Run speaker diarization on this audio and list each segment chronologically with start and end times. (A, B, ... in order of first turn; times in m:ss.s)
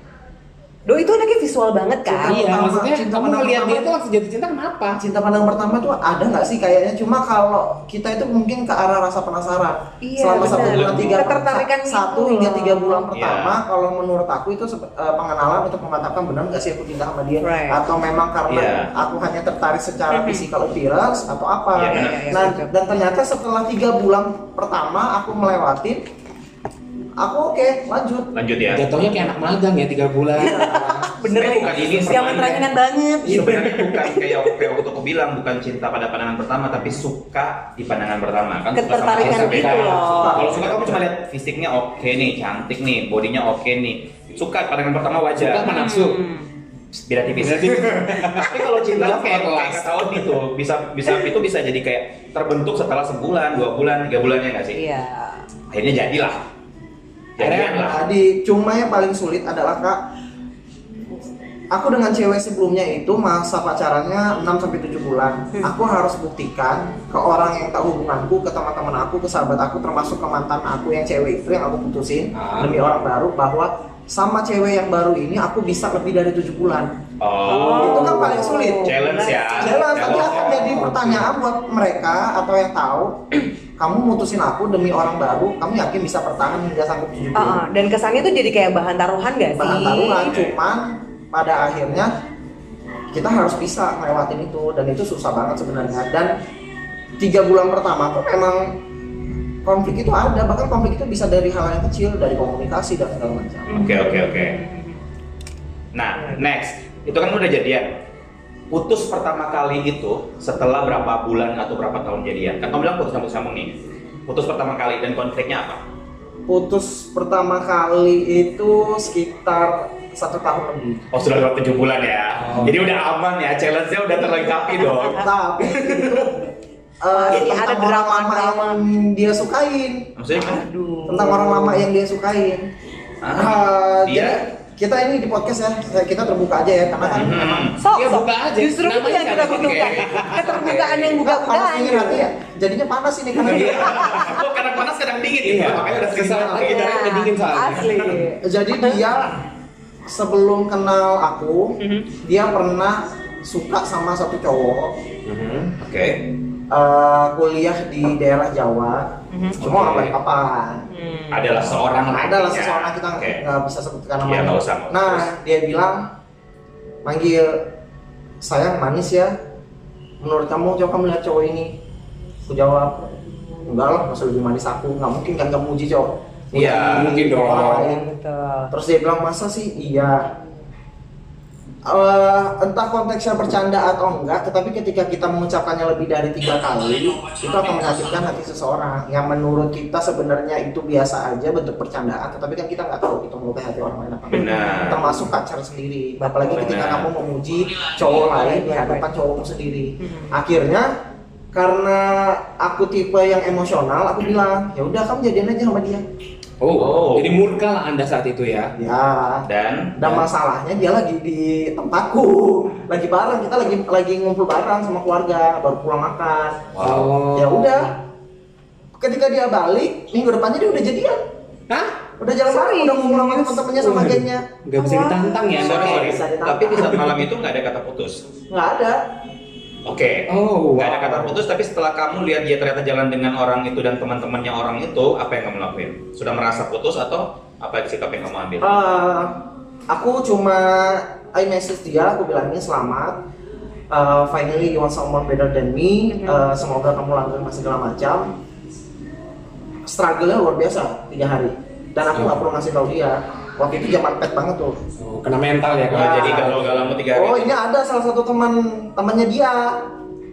0:00.8-0:02.5 A
0:02.1-0:03.9 B
0:02.2-0:05.0 C
0:04.9-0:26.0 B
0:10.0-0:13.1 A
0:10.4-0:11.2 D
0:10.7-0:11.1 C
0:13.1-0:13.6 D
0:17.4-0:17.8 A
0:18.5-0:18.9 D
0:20.1-0:20.4 A
0:21.7-0:22.4 D
0:21.9-0:22.7 A
0:27.2-0:28.3 B
0:28.3-0:28.8 D
0:28.7-0:31.0 C
0:30.4-0:34.5 A
0:30.4-0:31.1 B
0:31.3-0:32.7 D
0:31.7-0:32.2 C
0:33.2-0:45.8 D
0:38.7-0:40.4 A
0:39.1-0:41.0 C
0:40.2-0:40.6 B
0:45.3-0:46.2 C
0:45.6-0:46.5 A
0:46.9-0:54.8 D
0:47.4-0:50.4 C
0:54.7-0:55.4 A
0:55.7-0:56.4 D
0:57.4-0:58.0 D
0:57.4-0:57.9 C
0:57.8-1:00.0 B
1:01.7-1:16.9 B
1:12.3-1:12.7 C
1:17.2-1:20.9 D
1:17.4-1:19.8 A
1:17.7-1:19.0 B
1:19.6-1:23.2 B
1:19.9-1:21.3 C
1:23.8-1:27.6 B
1:27.3-1:30.3 A
1:29.5-1:32.1 B
1:30.2-1:30.6 D
1:33.1-1:36.3 B
1:37.2-1:38.8 B
1:39.6-1:43.9 B
1:43.7-1:45.0 A
1:43.7-1:44.6 D
1:45.9-1:47.9 D
1:48.7-1:55.8 D
1:56.5-2:01.0 B
2:01.1-2:06.4 D
2:02.4-2:03.0 C
2:04.6-2:05.2 A
2:05.0-2:06.4 B
2:07.0-2:10.1 B
2:07.1-2:08.8 A
2:10.2-2:10.6 D
2:10.4-2:11.8 A
2:11.1-2:12.7 B
2:13.2-2:14.4 D
2:13.3-2:17.7 B
2:17.1-2:17.8 D
2:17.8-2:22.3 A
2:17.9-2:20.8 C
2:19.3-2:21.0 D
2:20.8-2:24.3 B
2:23.4-2:24.4 C
2:23.5-2:27.0 D
2:23.9-2:24.4 A
2:25.4-2:28.2 C
2:26.5-2:29.0 A
2:28.4-2:29.4 B
2:30.1-2:35.0 B
2:31.8-2:32.1 A
2:35.2-2:35.7 C
2:35.8-2:36.3 D
2:36.7-2:40.8 B
2:39.3-2:39.6 A
2:39.6-2:40.1 C
2:40.9-2:41.7 A
2:41.3-2:43.4 D
2:42.0-2:46.0 B
2:44.2-2:45.3 D
2:47.0-2:47.7 B
2:48.4-2:49.3 B
2:50.2-2:51.8 B
2:52.5-2:53.1 B
2:53.6-2:58.1 B
2:56.5-2:57.2 D
2:56.8-2:57.8 C
2:57.3-2:58.7 A
2:58.7-3:00.3 B
3:01.8-3:20.9 B
3:14.3-3:15.1 D
3:16.2-3:16.7 A
3:16.4-3:17.1 D
3:18.3-3:19.0 A
3:20.0-3:20.3 A
3:21.5-3:26.0 B
3:26.6-3:28.7 C
3:26.7-3:27.4 D
3:28.8-3:36.6 B
3:29.4-3:30.0 D
3:36.7-3:37.1 D
3:36.8-3:37.9 C
3:37.3-3:37.9 B
3:39.0-3:41.2 B
3:41.7-3:42.0 C
3:42.2-3:44.4 B
3:42.5-3:43.8 A
3:43.8-3:46.2 C
3:44.8-3:45.6 A
3:45.5-3:48.2 D
3:45.6-3:47.1 B
3:46.8-3:47.1 C
3:48.5-3:49.0 B
3:49.8-3:58.8 D
3:50.3-3:51.4 C
3:58.6-3:59.4 B
3:59.9-4:03.2 B
4:03.9-4:08.3 B
4:06.1-4:06.4 A
4:09.9-4:14.8 B
4:12.1-4:12.4 C
4:15.0-4:17.0 C
4:15.9-4:17.6 D
4:15.9-4:19.9 B